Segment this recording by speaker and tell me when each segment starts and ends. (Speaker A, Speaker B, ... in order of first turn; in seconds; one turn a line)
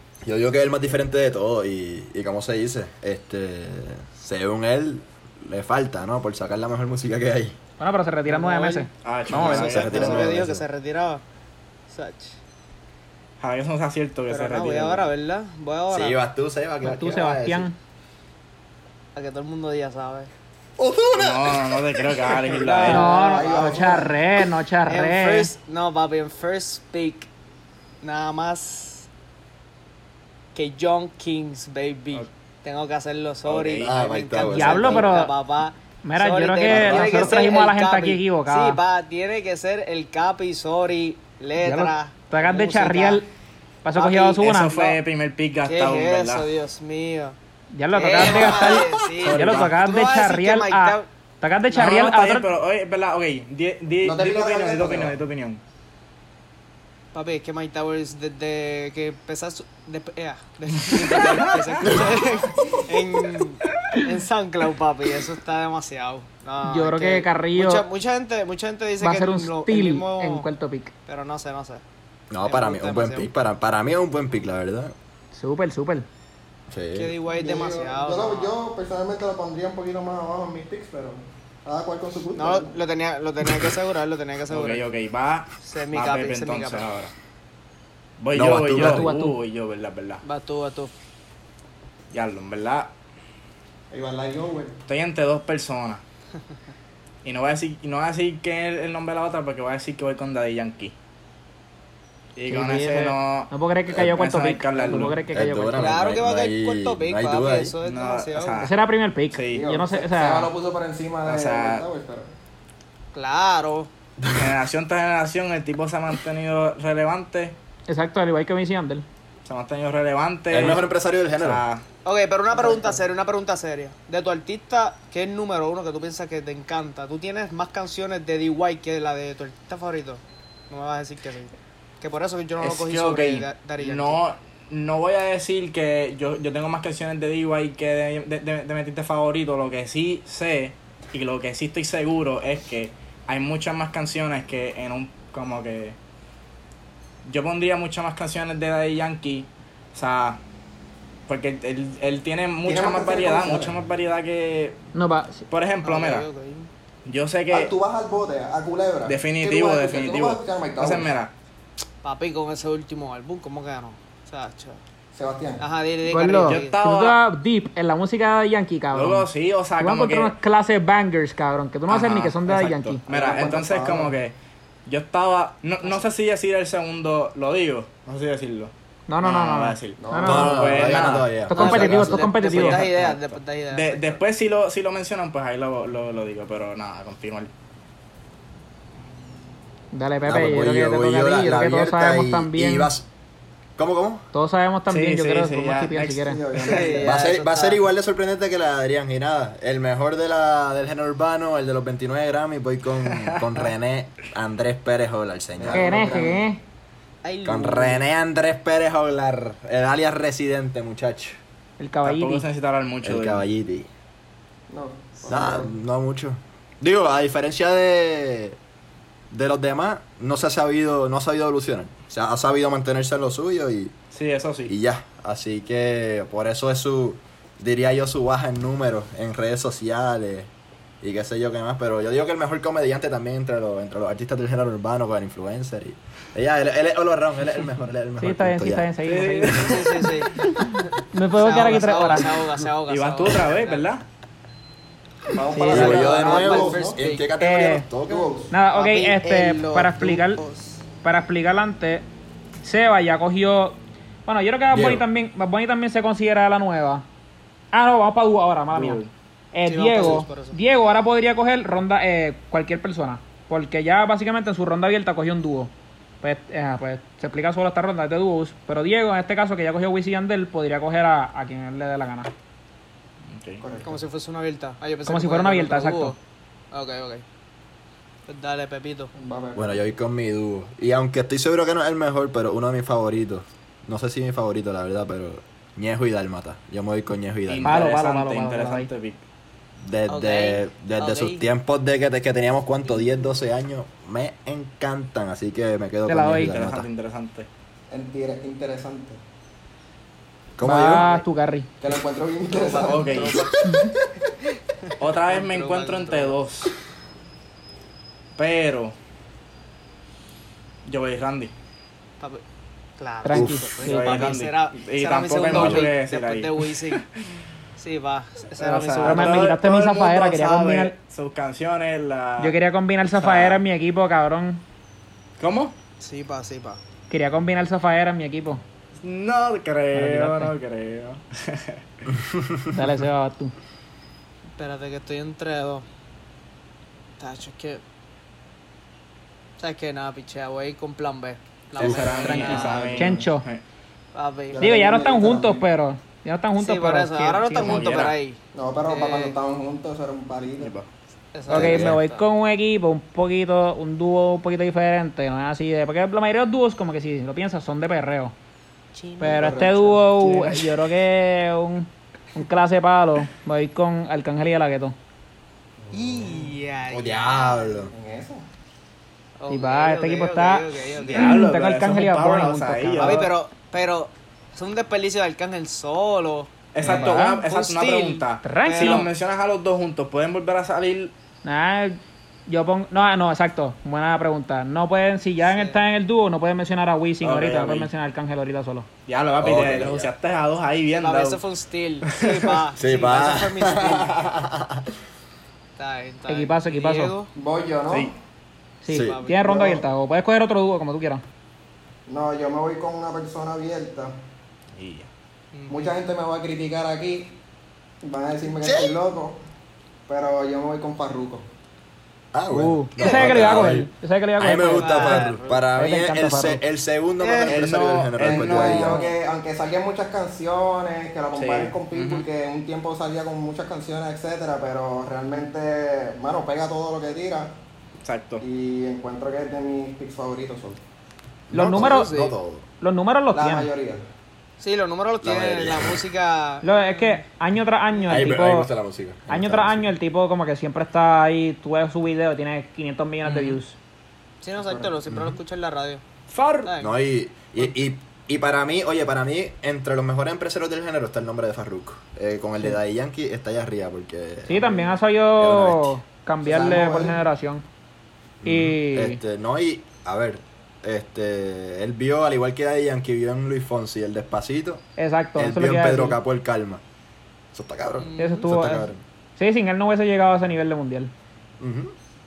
Speaker A: 0.2-7.5
Speaker B: 7.8-9.7
Speaker C: 8.2-11.2
Speaker D: 9.0-10.3
Speaker A: 9.3-10.6
Speaker C: 11.9-12.4
Speaker D: 13.4-15.1
Speaker C: 14.3-16.2
Speaker A: 15.9-17.7
Speaker B: 16.8-17.8
Speaker C: 19.1-20.3
Speaker A: 20.8-22.6
Speaker D: 21.1-23.1
Speaker C: 22.6-23.9
Speaker E: 22.8-24.1
Speaker B: 22.8-25.5
Speaker C: 24.9-27.3
Speaker C: 28.0-29.1
Speaker C: 30.5-43.2
Speaker D: 33.4-34.0
Speaker A: 33.8-35.1
Speaker B: 34.4-35.3
Speaker B: 36.0-38.8
Speaker A: 36.7-37.1
Speaker B: 41.6-43.3
Speaker B: 43.8-45.0
Speaker C: 43.9-44.4
Speaker D: 44.4-46.5
Speaker C: 45.6-47.4
Speaker B: 47.7-52.5
Speaker C: 47.9-51.1
Speaker D: 49.1-49.8
Speaker D: 51.7-55.6
Speaker E: 54.0-55.2
Speaker C: 57.1-70.5
Speaker D: 61.0-62.0
Speaker B: 66.6-67.8
Speaker B: 69.0-70.9
Speaker C: 71.1-71.8
Speaker A: 72.3-74.9
Speaker C: 72.4-73.3
Speaker B: 75.3-76.1
Speaker A: 76.7-77.1
Speaker C: 76.9-78.5
Speaker E: 77.4-82.8
Speaker C: 82.3-84.9
Speaker D: 84.5-87.1
Speaker C: 85.6-86.9
Speaker D: 88.2-90.2
Speaker A: 88.3-89.1
Speaker B: 88.7-89.4
Speaker C: 90.2-90.9
Speaker D: 92.1-92.9
Speaker E: 93.9-94.8
Speaker D: 94.8-96.0
Speaker D: 97.2-100.9
Speaker D: 102.3-105.2
Speaker B: 102.5-106.1
Speaker A: 105.3-107.7
Speaker C: 105.7-108.7
Speaker D: 107.8-108.7
Speaker B: 108.6-110.5
Speaker D: 109.3-109.6
Speaker E: 109.5-112.3
Speaker D: 111.2-111.8
Speaker C: 113.1-113.9
Speaker A: 114.2-114.5
Speaker D: 114.3-117.5
Speaker B: 117.9-119.0
Speaker D: 119.5-121.8
Speaker A: 120.5-121.6
Speaker C: 122.0-134.2
Speaker E: 122.5-123.0
Speaker D: 132.6-145.9
Speaker D: 147.2-150.4
Speaker D: 151.3-154.8
Speaker E: 152.6-153.8
Speaker B: 154.9-155.5
Speaker D: 155.5-156.3
Speaker C: 155.8-156.7
Speaker D: 157.0-157.7
Speaker E: 157.5-161.1
Speaker D: 159.0-161.3
Speaker C: 162.0-164.8
Speaker E: 165.1-165.6
Speaker C: 165.6-166.8
Speaker B: 166.0-173.0
Speaker D: 166.3-167.2
Speaker D: 168.9-170.3
Speaker D: 171.9-174.3
Speaker E: 172.9-174.1
Speaker D: 174.8-187.5
Speaker B: 179.1-180.7
Speaker E: 180.0-181.0
Speaker A: 180.2-182.2
Speaker B: 181.5-182.8
Speaker C: 181.5-184.2
Speaker B: 189.9-192.9
Speaker A: 190.2-193.1
Speaker A: 193.8-194.2
Speaker B: 194.3-196.4
Speaker D: 194.9-196.9
Speaker E: 196.2-197.2
Speaker C: 196.6-197.8
Speaker A: 197.0-206.0
Speaker D: 203.0-203.7
Speaker E: 205.6-206.4
Speaker B: 205.7-206.6
Speaker C: 207.2-208.0
Speaker A: 207.4-211.4
Speaker B: 211.8-212.4
Speaker D: 212.0-213.4
Speaker A: 213.0-213.9
Speaker E: 214.7-215.7
Speaker A: 215.2-218.6
Speaker A: 219.3-223.9
Speaker D: 224.1-224.7
Speaker A: 224.7-230.5
Speaker A: 231.0-238.9
Speaker B: 238.2-239.7
Speaker D: 239.0-239.9
Speaker C: 239.5-240.4
Speaker B: 240.7-242.5
Speaker C: 241.3-243.9
Speaker D: 242.9-244.0
Speaker E: 245.3-247.0
Speaker B: 245.5-245.9
Speaker C: 245.6-247.2
Speaker A: 245.7-248.3
Speaker B: 247.4-247.9
Speaker E: 248.1-248.5
Speaker B: 248.5-250.4
Speaker C: 248.7-250.8
Speaker B: 251.0-252.1
Speaker B: 252.6-257.0
Speaker A: 254.7-255.0
Speaker B: 257.7-259.0
Speaker D: 258.7-259.1
Speaker B: 259.5-272.3
Speaker C: 259.6-260.6
Speaker D: 273.3-273.6
Speaker E: 273.6-274.0
Speaker C: 273.8-276.2
Speaker B: 275.1-276.1
Speaker C: 276.7-277.2
Speaker C: 278.3-279.1
Speaker E: 279.1-279.8
Speaker A: 279.6-287.8
Speaker D: 287.5-289.2
Speaker B: 287.6-288.9
Speaker A: 289.8-296.9
Speaker C: 290.1-291.4
Speaker B: 296.1-296.6
Speaker D: 296.4-297.5
Speaker E: 297.9-299.2
Speaker A: 300.6-301.1
Speaker B: 300.6-301.7
Speaker E: 301.8-303.7
Speaker C: 302.5-303.7
Speaker D: 302.7-303.4
Speaker C: 304.9-306.4
Speaker D: 305.0-306.7
Speaker D: 308.4-308.9
Speaker D: 310.9-311.5
Speaker C: 313.0-317.0
Speaker B: 313.2-314.3
Speaker A: 313.3-313.7
Speaker D: 313.8-317.1
Speaker A: 315.5-315.9
Speaker C: 317.8-319.5
Speaker D: 318.6-322.6
Speaker B: 319.0-320.9
Speaker B: 322.4-324.6
Speaker D: 323.1-323.6
Speaker D: 325.4-325.7
Speaker C: 326.0-326.8
Speaker B: 327.1-328.6
Speaker D: 329.0-331.8
Speaker B: 329.9-330.5
Speaker A: 332.3-332.6
Speaker B: 332.7-333.5
Speaker C: 334.6-335.8
Speaker C: 337.2-337.8
Speaker C: 339.6-342.9
Speaker D: 341.7-343.6
Speaker A: 341.8-342.1
Speaker E: 342.1-343.3
Speaker B: 342.5-343.5
Speaker C: 344.1-344.8
Speaker E: 344.5-345.6
Speaker B: 344.6-347.9
Speaker C: 346.6-349.4
Speaker D: 347.5-348.1
Speaker E: 348.5-350.7
Speaker D: 350.6-350.9
Speaker C: 351.3-352.2
Speaker A: 351.5-352.0
Speaker B: 351.5-358.3
Speaker C: 358.9-359.8
Speaker B: 359.2-364.9
Speaker E: 359.2-360.0
Speaker D: 360.2-360.7
Speaker E: 365.9-366.5
Speaker C: 365.9-367.7
Speaker A: 366.9-367.9
Speaker E: 367.9-368.4
Speaker C: 369.4-371.4
Speaker B: 369.5-373.3
Speaker D: 371.0-373.3
Speaker C: 373.0-379.1
Speaker D: 376.7-381.1
Speaker B: 376.8-377.4
Speaker B: 378.4-379.1
Speaker B: 381.4-388.9
Speaker C: 385.4-385.8
Speaker D: 387.2-387.9
Speaker D: 389.1-391.4
Speaker A: 389.4-390.1
Speaker C: 390.9-394.1
Speaker D: 392.0-392.6
Speaker A: 392.8-394.9
Speaker C: 395.8-397.3
Speaker B: 396.3-397.1
Speaker E: 397.3-398.1
Speaker B: 398.8-401.2
Speaker A: 398.9-399.2
Speaker C: 398.9-399.5
Speaker E: 399.4-399.8
Speaker E: 402.1-404.1
Speaker D: 404.8-405.1
Speaker C: 405.5-405.9
Speaker E: 405.7-407.4
Speaker E: 408.0-409.4
Speaker A: 408.6-409.0
Speaker E: 410.1-411.4
Speaker A: 412.3-419.0
Speaker B: 412.5-416.6
Speaker C: 414.7-415.6
Speaker C: 417.2-417.6
Speaker D: 417.4-419.1
Speaker E: 418.2-427.5
Speaker D: 421.3-422.3
Speaker D: 428.0-428.4
Speaker E: 428.4-430.8
Speaker A: 431.5-432.6
Speaker B: 431.5-432.1
Speaker C: 431.7-432.3
Speaker B: 432.8-433.7
Speaker E: 433.3-434.0
Speaker C: 434.6-437.2
Speaker A: 435.2-436.0
Speaker B: 436.6-438.7
Speaker E: 438.0-438.3
Speaker A: 438.1-439.9
Speaker B: 439.3-443.8
Speaker C: 443.2-443.6
Speaker C: 444.4-446.0
Speaker E: 444.6-444.9
Speaker A: 445.1-445.4
Speaker D: 446.3-446.7
Speaker C: 446.6-447.0
Speaker A: 446.8-454.7
Speaker B: 454.4-457.6
Speaker E: 454.6-454.8
Speaker A: 455.4-456.0
Speaker E: 456.4-457.2
Speaker A: 458.4-464.8
Speaker B: 458.4-459.2
Speaker B: 465.0-466.2
Speaker A: 465.4-466.8
Speaker A: 467.5-469.0
Speaker C: 468.0-468.5
Speaker B: 468.2-471.1
Speaker A: 471.6-471.9